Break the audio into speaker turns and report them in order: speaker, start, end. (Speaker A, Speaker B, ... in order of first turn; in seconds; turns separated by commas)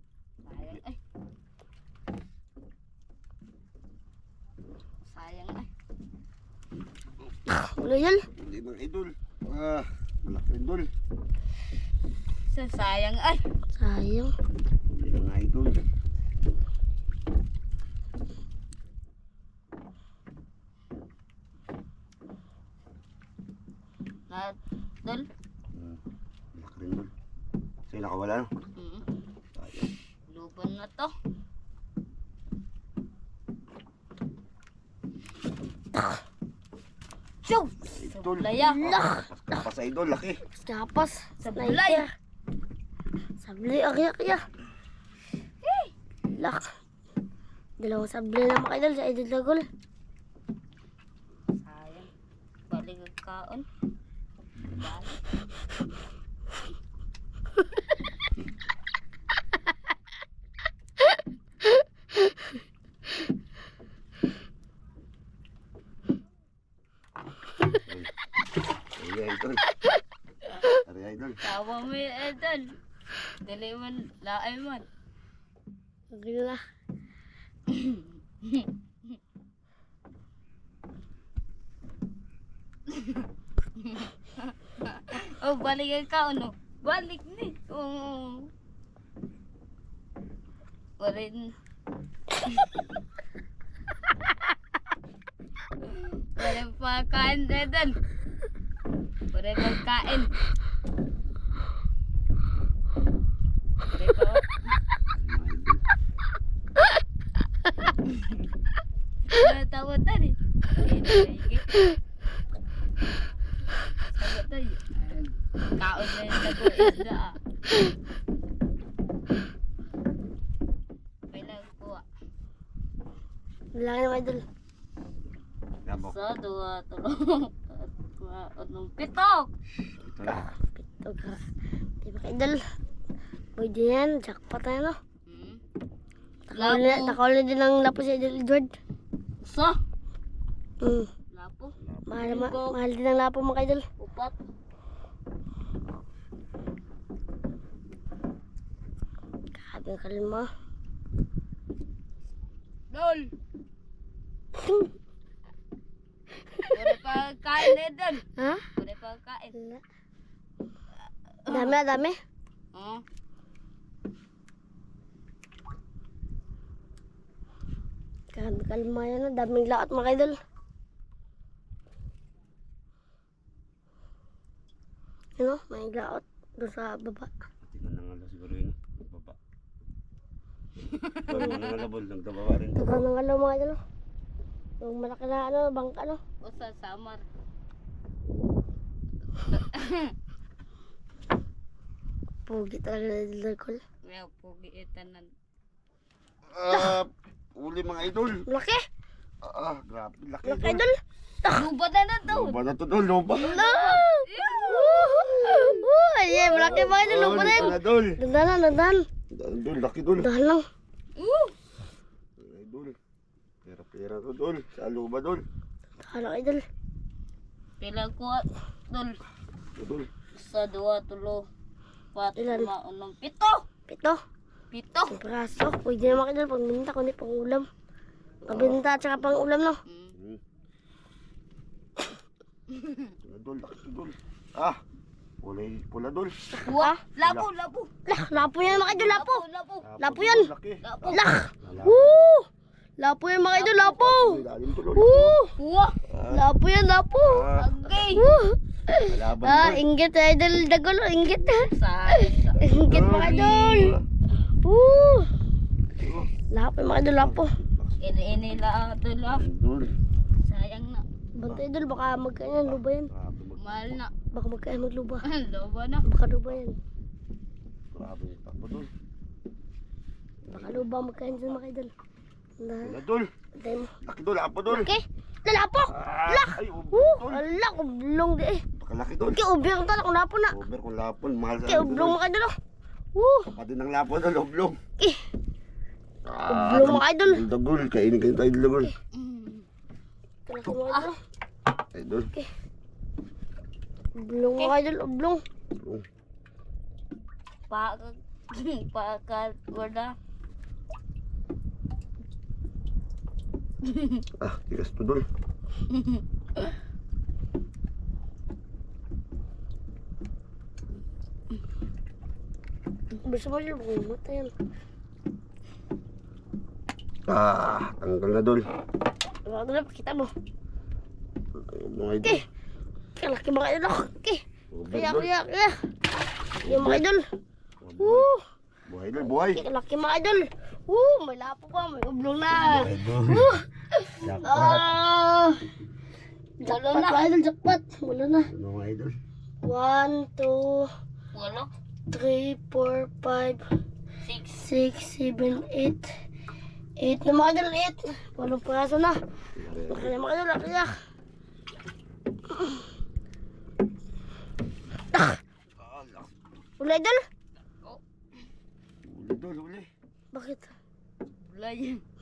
Speaker A: 0.4-1.0, Speaker A: 5.0-5.7, Speaker B: 7.5-8.2, Speaker C: 8.4-10.9, Speaker A: 12.5-13.4, Speaker B: 13.7-14.3, Speaker C: 14.9-15.8, Speaker A: 24.3-25.3, Speaker C: 25.7-26.0, Speaker C: 26.5-27.1, Speaker C: 27.9-28.5, Speaker A: 28.8-29.0, Speaker C: 29.5-29.9, Speaker A: 30.3-31.1, Speaker A: 37.4-38.8, Speaker C: 37.9-40.4, Speaker B: 38.6-39.2, Speaker B: 40.5-42.1, Speaker A: 41.4-42.0, Speaker B: 43.4-44.4, Speaker A: 45.6-45.9, Speaker B: 46.3-46.7, Speaker B: 47.8-49.6, Speaker A: 51.6-52.1, Speaker A: 52.7-53.6, Speaker C: 54.6-54.9, Speaker A: 54.8-55.2, Speaker C: 67.8-68.1, Speaker C: 69.0-69.6, Speaker C: 70.8-71.4, Speaker A: 71.4-72.8, Speaker A: 73.4-74.8, Speaker B: 76.1-76.6, Speaker A: 77.7-79.2, Speaker A: 82.9-83.2, Speaker A: 83.8-88.5, Speaker A: 91.0-91.5, Speaker A: 92.4-92.7, Speaker A: 95.8-98.0, Speaker A: 99.3-100.3, Speaker A: 103.9-104.7, Speaker C: 105.1-105.8, Speaker A: 108.0-108.4, Speaker A: 109.3-111.8, Speaker A: 114.1-117.4, Speaker A: 121.3-122.0, Speaker B: 123.7-124.4, Speaker C: 125.8-126.2, Speaker A: 126.0-129.5, Speaker C: 129.9-130.5, Speaker B: 130.3-131.4, Speaker B: 132.0-132.6, Speaker B: 133.6-135.0, Speaker A: 135.3-135.6, Speaker B: 136.5-138.7, Speaker A: 136.6-137.2, Speaker A: 139.4-139.8, Speaker B: 140.8-141.1, Speaker A: 141.3-142.8, Speaker C: 141.8-142.6, Speaker B: 142.1-143.8, Speaker A: 144.0-144.3, Speaker B: 149.6-150.5, Speaker A: 152.9-153.3, Speaker B: 154.6-154.9, Speaker B: 156.4-156.8, Speaker A: 156.7-159.5, Speaker B: 158.4-158.7, Speaker B: 159.5-159.8, Speaker A: 161.4-161.8, Speaker B: 161.5-162.2, Speaker A: 162.7-163.0, Speaker B: 168.3-170.4, Speaker B: 175.4-177.3, Speaker C: 177.6-179.4, Speaker A: 180.9-181.7, Speaker C: 181.3-183.1, Speaker B: 182.8-183.8, Speaker B: 184.8-186.2, Speaker A: 186.4-187.2, Speaker A: 189.5-190.1, Speaker B: 192.5-193.8, Speaker A: 194.0-195.3, Speaker C: 196.5-198.4, Speaker B: 198.5-198.8, Speaker C: 199.4-200.9, Speaker B: 200.4-201.7, Speaker A: 201.5-202.6, Speaker C: 202.2-203.5, Speaker A: 203.4-205.4, Speaker B: 203.4-209.1, Speaker C: 205.5-205.8, Speaker C: 206.5-208.2, Speaker A: 206.5-207.4, Speaker C: 209.3-210.3, Speaker B: 210.2-210.6, Speaker A: 211.2-211.6, Speaker C: 212.4-213.0, Speaker C: 213.6-215.4, Speaker B: 216.0-216.6, Speaker A: 217.8-219.2, Speaker C: 219.8-220.1, Speaker A: 220.3-221.4, Speaker A: 222.1-223.6, Speaker B: 222.4-222.7, Speaker B: 223.9-224.2, Speaker A: 224.7-225.1, Speaker B: 225.1-227.7, Speaker C: 228.4-228.8, Speaker B: 228.5-229.8, Speaker A: 229.9-230.1, Speaker C: 230.1-230.4, Speaker A: 232.7-233.1, Speaker C: 233.2-234.8, Speaker C: 235.4-236.3, Speaker B: 236.5-237.0, Speaker A: 236.7-237.9, Speaker C: 237.2-237.5, Speaker B: 238.1-239.4, Speaker C: 238.3-239.2, Speaker A: 239.1-239.8, Speaker C: 239.8-242.2, Speaker B: 240.0-240.5, Speaker A: 240.8-241.3, Speaker B: 241.1-242.5, Speaker B: 243.0-244.4, Speaker A: 243.5-243.9, Speaker C: 243.9-245.4, Speaker B: 244.9-245.5, Speaker A: 245.6-246.0, Speaker C: 246.0-246.4, Speaker B: 246.3-247.4, Speaker C: 247.2-248.4, Speaker A: 247.5-248.3, Speaker B: 248.1-253.9, Speaker C: 249.1-249.8, Speaker A: 251.7-253.9, Speaker C: 252.7-254.0, Speaker B: 254.6-255.3, Speaker C: 256.0-256.3, Speaker B: 256.5-257.5, Speaker C: 256.9-258.6, Speaker A: 258.0-259.4, Speaker C: 259.3-259.9, Speaker A: 260.4-261.0, Speaker B: 261.4-263.1, Speaker C: 262.6-264.0, Speaker A: 263.6-264.1, Speaker B: 264.3-265.2, Speaker A: 265.2-266.0, Speaker B: 266.0-266.8, Speaker C: 267.9-268.9, Speaker C: 270.4-270.9, Speaker B: 270.5-271.9, Speaker B: 272.6-272.9, Speaker C: 272.8-273.3, Speaker B: 273.6-273.9, Speaker C: 274.0-274.9, Speaker B: 274.7-278.6, Speaker C: 275.9-277.4, Speaker C: 278.7-279.4, Speaker B: 279.3-280.5, Speaker C: 280.5-282.2, Speaker B: 281.7-282.5, Speaker B: 283.1-283.5, Speaker C: 283.4-284.8, Speaker C: 286.2-288.9, Speaker B: 286.5-287.4, Speaker A: 289.1-289.7, Speaker B: 290.5-291.1, Speaker A: 290.7-291.1, Speaker C: 291.9-292.3, Speaker B: 294.2-295.4, Speaker C: 295.7-296.1, Speaker A: 297.7-300.1, Speaker A: 303.8-304.2, Speaker C: 304.4-305.3, Speaker A: 305.9-306.7, Speaker B: 313.2-314.5, Speaker C: 317.3-318.6, Speaker B: 319.4-320.3, Speaker C: 321.5-322.4, Speaker B: 323.2-325.8, Speaker C: 324.7-325.3, Speaker C: 326.6-327.0, Speaker B: 326.6-327.3, Speaker C: 327.8-328.3, Speaker B: 328.0-328.4, Speaker C: 328.9-329.6, Speaker B: 329.4-335.7, Speaker C: 332.6-333.6, Speaker C: 334.2-334.9, Speaker A: 336.6-337.3, Speaker B: 336.6-338.5, Speaker C: 338.5-339.2, Speaker B: 339.6-340.9, Speaker A: 341.3-341.7, Speaker B: 342.1-343.6, Speaker A: 344.2-344.7, Speaker B: 344.6-346.1, Speaker B: 347.0-349.2, Speaker C: 349.5-350.2, Speaker B: 349.9-350.9, Speaker C: 355.8-356.3, Speaker B: 356.8-357.2, Speaker C: 359.0-359.9, Speaker B: 360.3-360.7, Speaker A: 361.4-362.0